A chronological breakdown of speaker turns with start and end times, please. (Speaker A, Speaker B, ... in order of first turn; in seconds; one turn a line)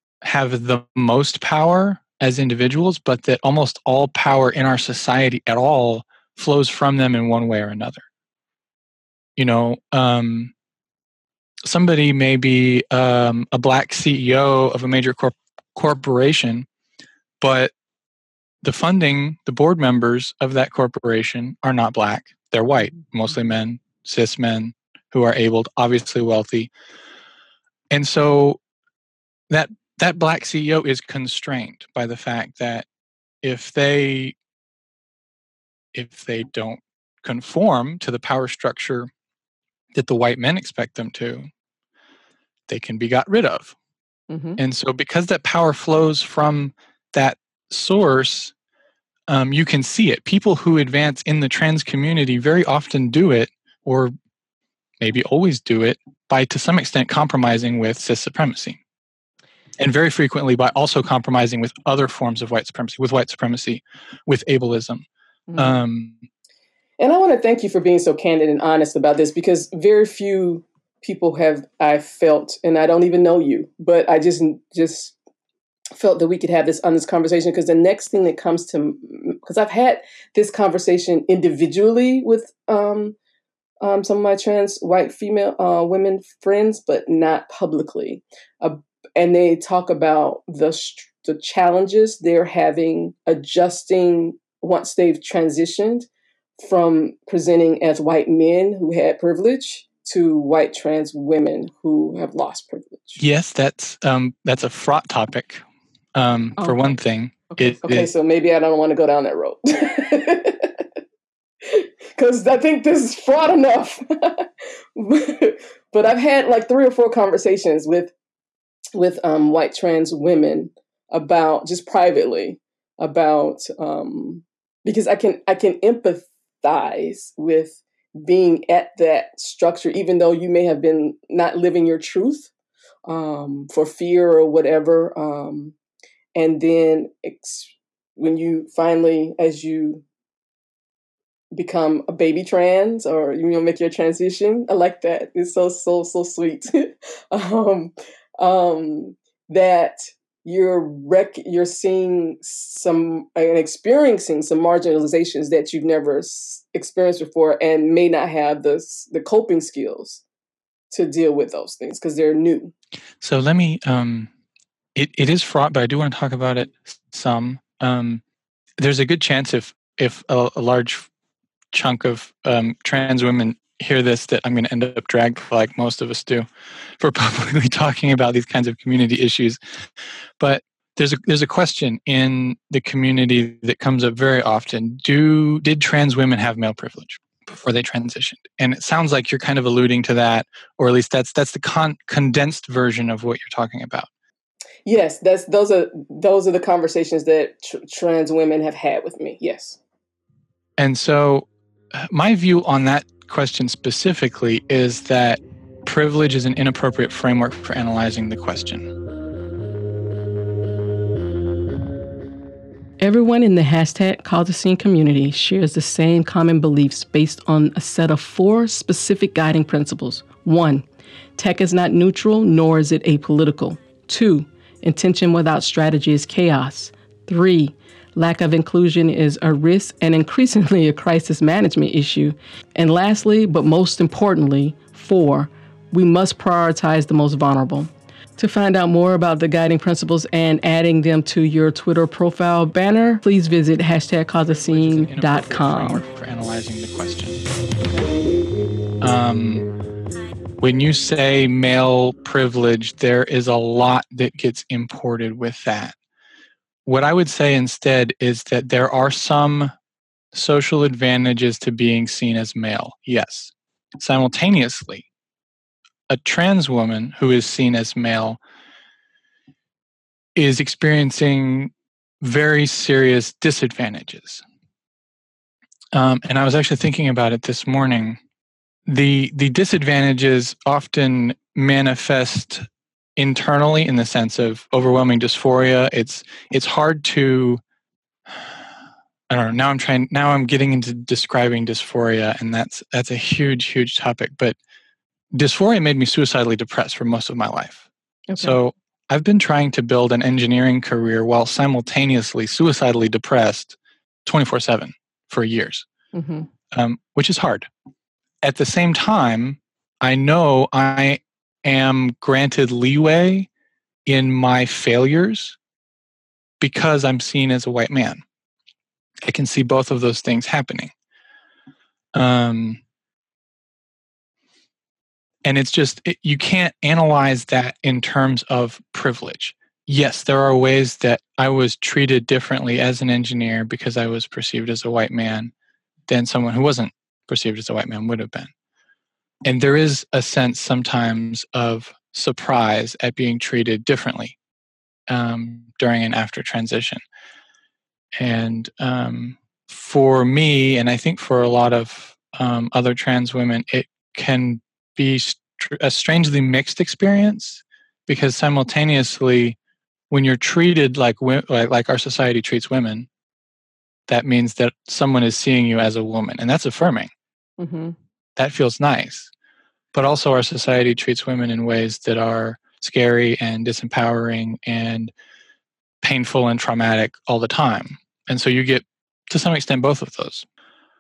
Speaker A: 0.2-8.0
Speaker A: 9.4-10.5
Speaker A: 11.7-16.7
Speaker A: 17.4-17.7
Speaker A: 18.6-26.7
Speaker A: 27.9-28.6
Speaker A: 29.5-32.9
Speaker A: 33.4-34.4
Speaker A: 35.9-39.1
Speaker A: 39.9-41.5
Speaker A: 42.7-43.8
Speaker B: 44.3-44.6
Speaker A: 44.6-48.5
Speaker A: 49.3-54.1
Speaker A: 55.0-58.8
Speaker A: 59.8-65.1
Speaker B: 65.5-65.8
Speaker A: 65.6-66.2
Speaker B: 67.0-75.2
Speaker B: 76.0-83.2
Speaker B: 83.8-96.1
Speaker B: 96.6-103.2
Speaker A: 103.2-105.6
Speaker A: 106.2-108.1
Speaker B: 107.5-110.9
Speaker B: 111.6-118.1
Speaker B: 119.0-132.5
Speaker B: 133.1-135.8
Speaker B: 136.3-140.0
Speaker B: 141.5-160.2
Speaker B: 160.9-162.7
Speaker A: 163.2-164.3
Speaker A: 164.9-168.2
Speaker A: 168.8-171.1
Speaker A: 171.7-176.5
Speaker A: 177.0-179.6
Speaker A: 180.4-194.1
Speaker B: 194.9-199.8
Speaker A: 200.8-208.9
Speaker B: 213.0-220.8
Speaker B: 221.4-246.0
Speaker A: 244.4-247.4
Speaker A: 249.0-249.7
Speaker A: 250.6-256.0
Speaker A: 256.9-259.7
Speaker A: 260.3-265.1
Speaker A: 266.1-268.4
Speaker A: 270.4-274.4
Speaker A: 275.9-278.2
Speaker A: 278.9-282.6
Speaker A: 283.2-287.6
Speaker A: 289.3-294.6
Speaker A: 295.3-297.9
Speaker B: 298.3-298.6
Speaker A: 298.4-305.9
Speaker B: 306.1-306.5
Speaker A: 306.7-307.7
Speaker A: 308.4-313.5
Speaker A: 314.1-315.6
Speaker A: 316.6-318.2
Speaker A: 319.2-320.9
Speaker A: 322.1-322.8
Speaker A: 325.4-335.5
Speaker A: 336.1-338.5
Speaker A: 339.4-344.4
Speaker A: 345.1-347.0
Speaker A: 348.2-359.6
Speaker A: 360.1-363.1
Speaker A: 364.1-367.1
Speaker B: 367.6-368.0
Speaker A: 368.4-369.3
Speaker A: 369.9-375.1
Speaker A: 376.0-380.5